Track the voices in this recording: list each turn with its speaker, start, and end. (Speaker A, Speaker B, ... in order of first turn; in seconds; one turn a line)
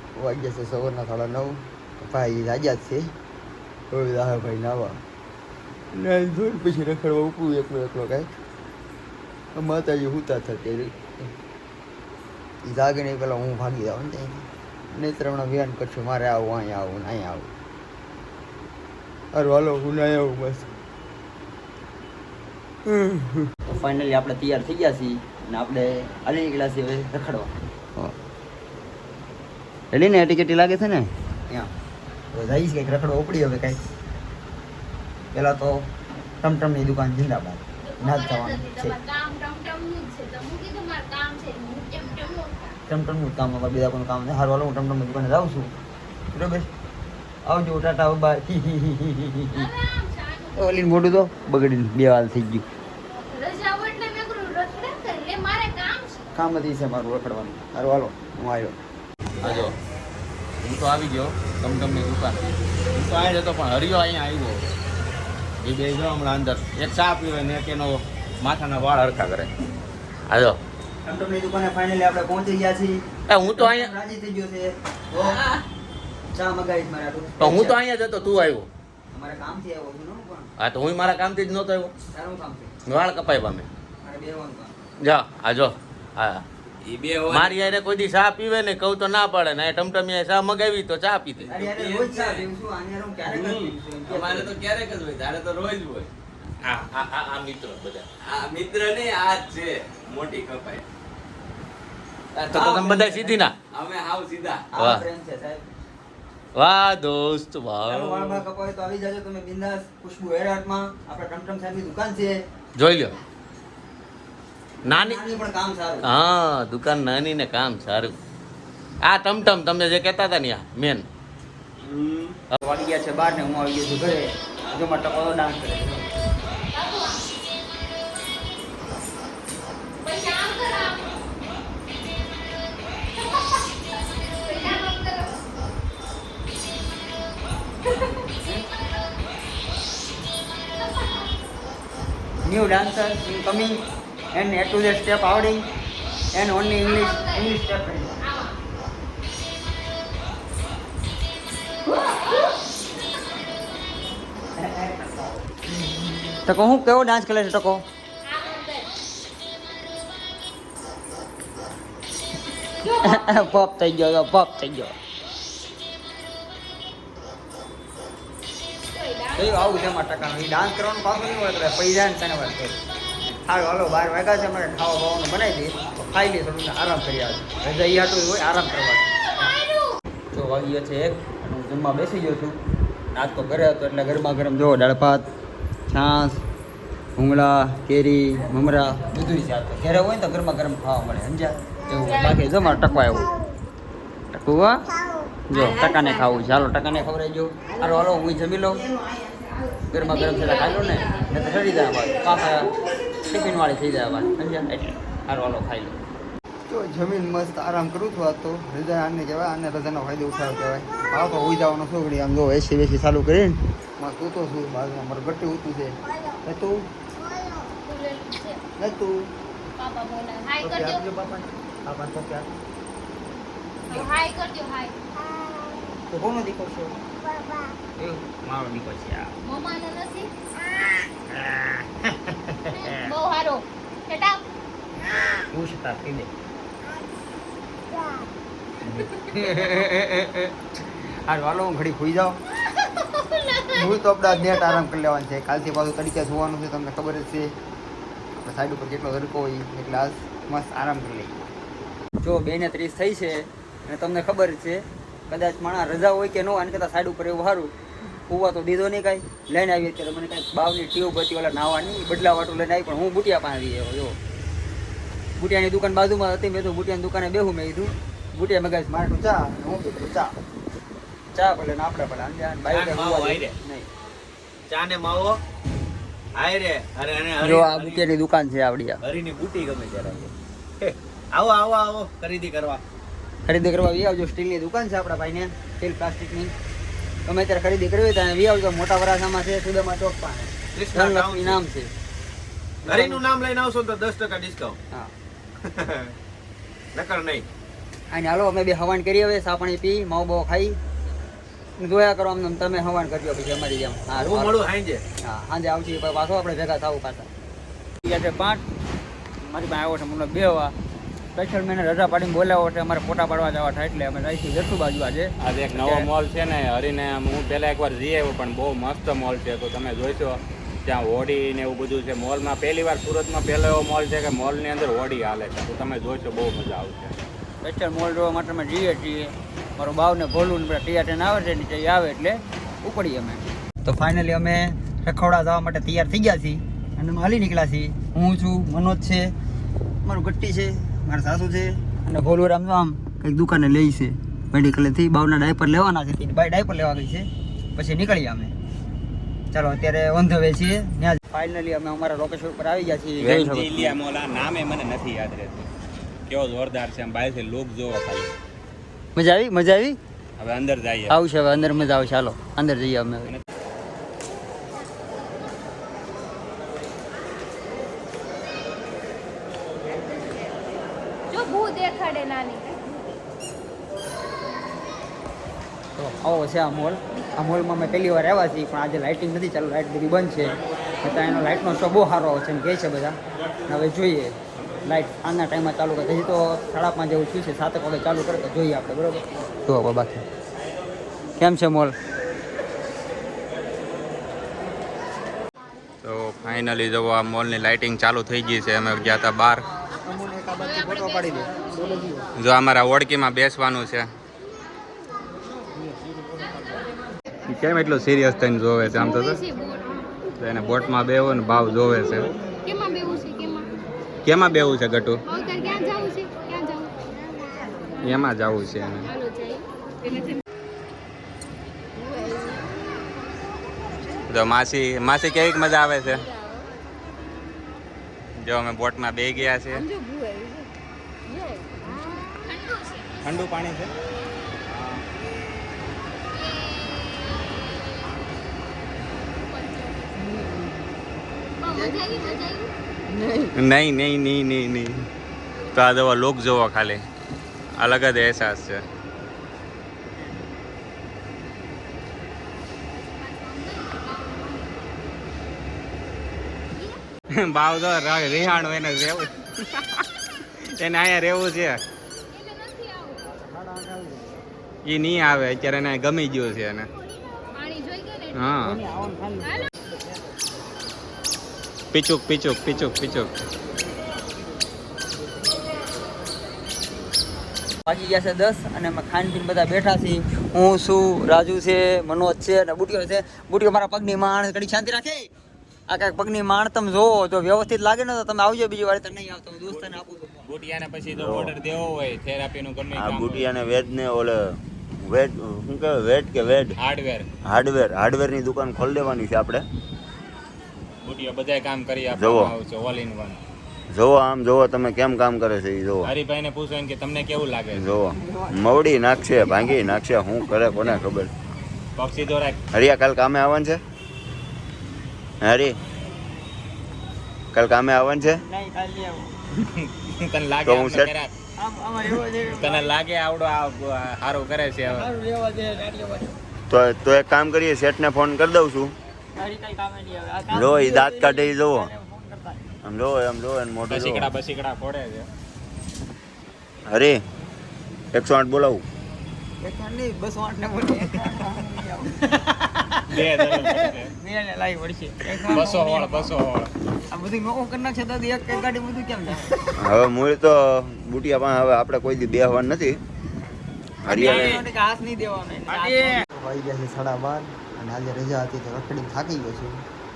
Speaker A: 0.2-3.1
Speaker A: 3.9-5.0
Speaker A: 5.9-8.3
Speaker A: 9.6-11.0
Speaker A: 12.6-17.5
Speaker A: 19.3-20.7
Speaker A: 22.9-28.1
Speaker A: 29.9-31.7
Speaker A: 32.3-33.8
Speaker A: 35.3-35.8
Speaker A: 36.4-39.0
Speaker B: 37.8-42.8
Speaker A: 42.9-45.7
Speaker A: 46.3-46.7
Speaker A: 47.5-49.7
Speaker B: 49.5-50.9
Speaker A: 50.6-52.6
Speaker B: 53.2-56.2
Speaker A: 56.4-58.8
Speaker C: 59.4-59.8
Speaker C: 60.6-64.7
Speaker C: 65.6-69.5
Speaker C: 70.3-70.6
Speaker A: 71.0-75.4
Speaker C: 73.3-73.9
Speaker A: 76.3-77.8
Speaker C: 77.4-78.7
Speaker A: 79.1-80.5
Speaker C: 80.6-81.9
Speaker A: 82.1-82.7
Speaker C: 82.9-83.7
Speaker A: 84.0-84.8
Speaker C: 85.0-86.5
Speaker D: 86.9-87.5
Speaker C: 87.3-91.5
Speaker A: 91.5-94.5
Speaker C: 94.2-94.5
Speaker D: 94.6-96.1
Speaker C: 96.6-98.0
Speaker D: 98.2-100.8
Speaker C: 102.3-103.5
Speaker A: 102.5-103.4
Speaker D: 103.7-104.6
Speaker A: 104.7-105.6
Speaker C: 106.5-108.4
Speaker A: 107.9-112.4
Speaker C: 112.8-113.2
Speaker C: 114.9-115.2
Speaker A: 114.9-116.1
Speaker C: 116.0-118.2
Speaker C: 119.0-121.0
Speaker D: 121.8-122.3
Speaker A: 122.6-126.1
Speaker B: 126.7-127.2
Speaker B: 130.0-131.2
Speaker B: 133.1-133.7
Speaker B: 134.4-135.4
Speaker B: 140.8-141.3
Speaker A: 142.4-143.8
Speaker A: 144.3-145.7
Speaker A: 146.3-148.2
Speaker B: 146.8-147.6
Speaker B: 148.2-148.5
Speaker A: 154.6-155.3
Speaker A: 156.4-157.8
Speaker B: 158.2-158.9
Speaker B: 162.8-163.2
Speaker A: 163.0-164.9
Speaker B: 168.9-169.9
Speaker A: 169.4-172.8
Speaker A: 173.4-179.1
Speaker B: 179.4-179.9
Speaker A: 180.3-182.6
Speaker A: 183.1-185.2
Speaker A: 185.9-186.4
Speaker A: 187.2-193.3
Speaker A: 194.3-194.8
Speaker A: 195.5-198.8
Speaker A: 199.9-202.7
Speaker B: 200.1-201.3
Speaker A: 203.3-206.0
Speaker A: 206.7-216.9
Speaker B: 217.8-218.6
Speaker A: 218.8-219.3
Speaker B: 219.8-221.1
Speaker A: 220.6-222.5
Speaker B: 223.9-224.9
Speaker A: 226.1-227.0
Speaker A: 228.0-229.3
Speaker B: 229.4-230.3
Speaker A: 231.3-233.1
Speaker B: 232.8-234.4
Speaker A: 235.5-236.3
Speaker A: 238.8-240.6
Speaker A: 241.3-242.4
Speaker B: 242.8-243.8
Speaker A: 243.7-247.5
Speaker A: 248.4-251.4
Speaker A: 252.2-257.7
Speaker A: 258.3-264.2
Speaker A: 265.4-270.3
Speaker A: 271.3-273.9
Speaker D: 272.7-273.6
Speaker D: 274.7-275.4
Speaker D: 276.4-278.0
Speaker A: 277.4-279.0
Speaker D: 279.0-282.8
Speaker A: 283.4-286.5
Speaker A: 287.3-291.9
Speaker D: 290.7-291.6
Speaker A: 292.9-293.2
Speaker D: 292.9-294.8
Speaker D: 295.6-296.1
Speaker D: 296.9-297.5
Speaker A: 298.1-300.8
Speaker A: 301.8-304.6
Speaker D: 304.1-305.0
Speaker A: 305.2-307.3
Speaker A: 308.0-308.6
Speaker A: 309.5-310.7
Speaker A: 311.4-316.1
Speaker E: 315.4-327.2
Speaker A: 327.6-339.3
Speaker A: 340.0-348.5
Speaker A: 349.5-354.0
Speaker E: 353.2-355.7
Speaker E: 356.3-358.3
Speaker A: 359.1-360.0
Speaker E: 360.4-361.2
Speaker A: 361.1-363.3
Speaker B: 371.3-372.8
Speaker A: 376.0-390.2
Speaker A: 391.4-391.9
Speaker E: 396.0-399.6
Speaker A: 399.9-402.3
Speaker E: 402.4-404.1
Speaker E: 407.5-409.4
Speaker B: 408.9-409.9
Speaker E: 410.4-412.3
Speaker B: 412.6-413.7
Speaker E: 414.2-415.2
Speaker B: 415.3-416.9
Speaker E: 418.0-419.1
Speaker B: 419.1-419.6
Speaker E: 424.3-426.2
Speaker E: 428.4-429.9
Speaker B: 432.4-433.1
Speaker E: 433.2-433.9
Speaker B: 439.5-440.3
Speaker B: 441.6-442.7
Speaker A: 441.7-442.0
Speaker E: 443.6-445.1
Speaker E: 445.8-447.0
Speaker E: 447.8-448.8
Speaker B: 453.0-455.0
Speaker E: 457.3-460.0
Speaker E: 460.8-461.8
Speaker B: 462.3-463.3
Speaker A: 463.3-464.4
Speaker E: 464.9-466.9
Speaker B: 467.5-468.5
Speaker E: 468.3-468.8
Speaker A: 468.6-469.7
Speaker E: 471.9-473.3
Speaker A: 477.9-485.3
Speaker A: 485.9-490.5
Speaker E: 490.4-493.4
Speaker F: 491.1-491.6
Speaker F: 492.9-496.8
Speaker E: 496.8-497.3
Speaker F: 497.5-499.7
Speaker E: 501.0-503.4
Speaker F: 502.1-502.5
Speaker F: 503.9-506.1
Speaker E: 506.1-507.9
Speaker F: 507.7-511.3
Speaker A: 508.2-508.6
Speaker A: 509.4-509.8
Speaker E: 512.0-512.6
Speaker F: 512.7-513.8
Speaker F: 515.4-515.8
Speaker F: 517.5-518.4
Speaker A: 518.3-519.3
Speaker E: 519.8-521.3
Speaker F: 520.6-521.1
Speaker A: 521.6-522.9
Speaker E: 522.6-525.1
Speaker A: 524.8-526.3
Speaker F: 526.7-528.9
Speaker A: 529.4-532.6
Speaker F: 530.5-531.9
Speaker F: 532.8-534.3
Speaker E: 533.9-535.3
Speaker F: 536.9-537.2
Speaker F: 538.1-538.9
Speaker A: 539.6-542.9
Speaker E: 543.1-544.1
Speaker A: 543.4-546.3
Speaker E: 545.5-546.7
Speaker A: 547.1-549.7
Speaker F: 549.8-553.0
Speaker F: 554.0-554.6
Speaker A: 554.0-559.8
Speaker E: 555.8-556.1